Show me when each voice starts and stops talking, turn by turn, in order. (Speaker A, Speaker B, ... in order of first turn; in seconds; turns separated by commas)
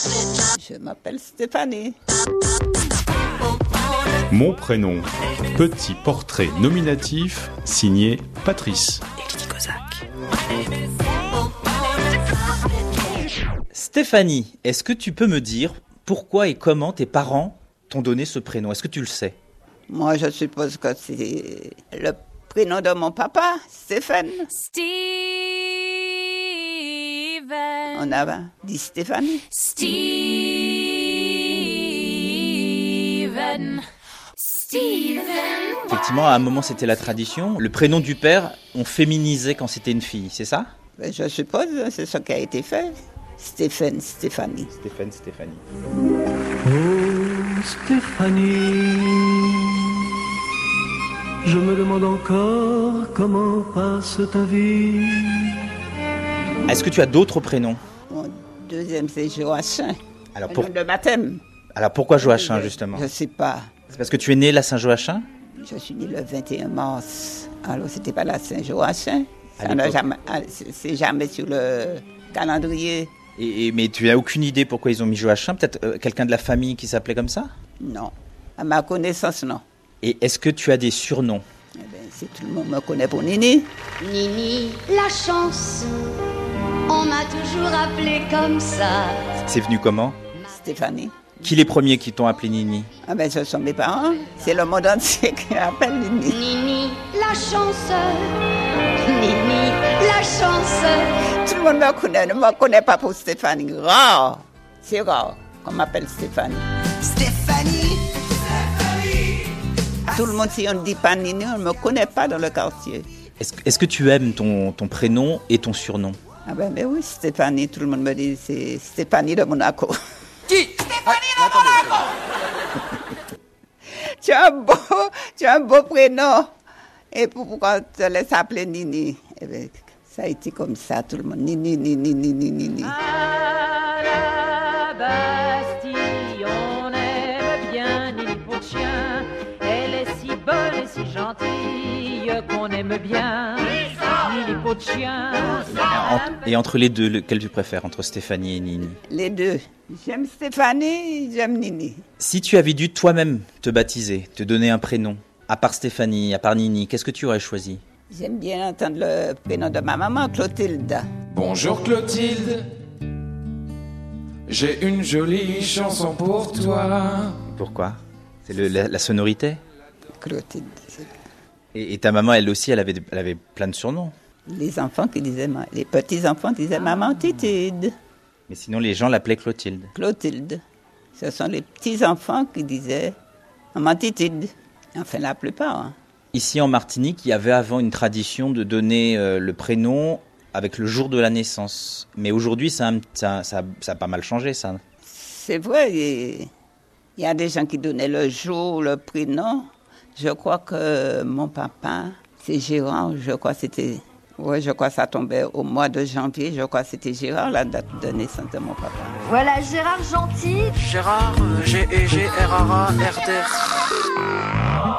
Speaker A: 0.5-2.0, Speaker B: 4.3-10.0, Speaker C: 13.7-19.4, Speaker A: 19.9-24.5, Speaker D: 24.6-27.9, Speaker A: 27.9-29.4, Speaker D: 29.6-33.9, Speaker D: 34.4-35.8, Speaker C: 35.9-40.7, Speaker A: 41.0-44.7, Speaker C: 44.8-45.6, Speaker E: 46.6-50.1, Speaker E: 51.4-55.7, Speaker C: 56.7-57.8, Speaker A: 58.1-60.0, Speaker C: 60.4-60.7, Speaker A: 60.5-61.4, Speaker C: 61.8-63.1, Speaker A: 62.2-63.7, Speaker C: 63.9-65.2, Speaker A: 65.6-73.1, Speaker C: 69.6-70.0, Speaker C: 73.4-77.5, Speaker A: 77.8-79.6, Speaker C: 80.0-81.4, Speaker A: 81.8-83.7, Speaker F: 84.0-85.9, Speaker F: 86.9-89.3, Speaker C: 89.5-90.2, Speaker A: 90.5-91.3, Speaker C: 91.4-92.9, Speaker A: 93.0-96.4, Speaker F: 96.3-98.4, Speaker F: 99.0-101.2, Speaker A: 101.4-106.6, Speaker F: 107.0-108.1, Speaker A: 110.1-113.1, Speaker C: 113.4-116.2, Speaker A: 116.5-120.0, Speaker A: 120.5-121.8, Speaker A: 124.2-126.5, Speaker A: 127.1-132.9, Speaker D: 132.8-146.2, Speaker C: 145.7-149.0, Speaker A: 149.1-152.0, Speaker C: 152.2-157.8, Speaker A: 158.1-161.1, Speaker G: 161.3-162.6, Speaker G: 164.5-167.4, Speaker C: 167.5-169.6, Speaker A: 170.2-171.1, Speaker C: 171.7-174.1, Speaker A: 174.5-177.9, Speaker C: 178.5-179.9, Speaker A: 179.9-180.6, Speaker A: 181.2-183.2, Speaker A: 183.7-185.9, Speaker C: 186.3-194.8, Speaker A: 195.0-196.5, Speaker A: 197.2-209.2, Speaker F: 209.3-210.8, Speaker G: 210.8-213.5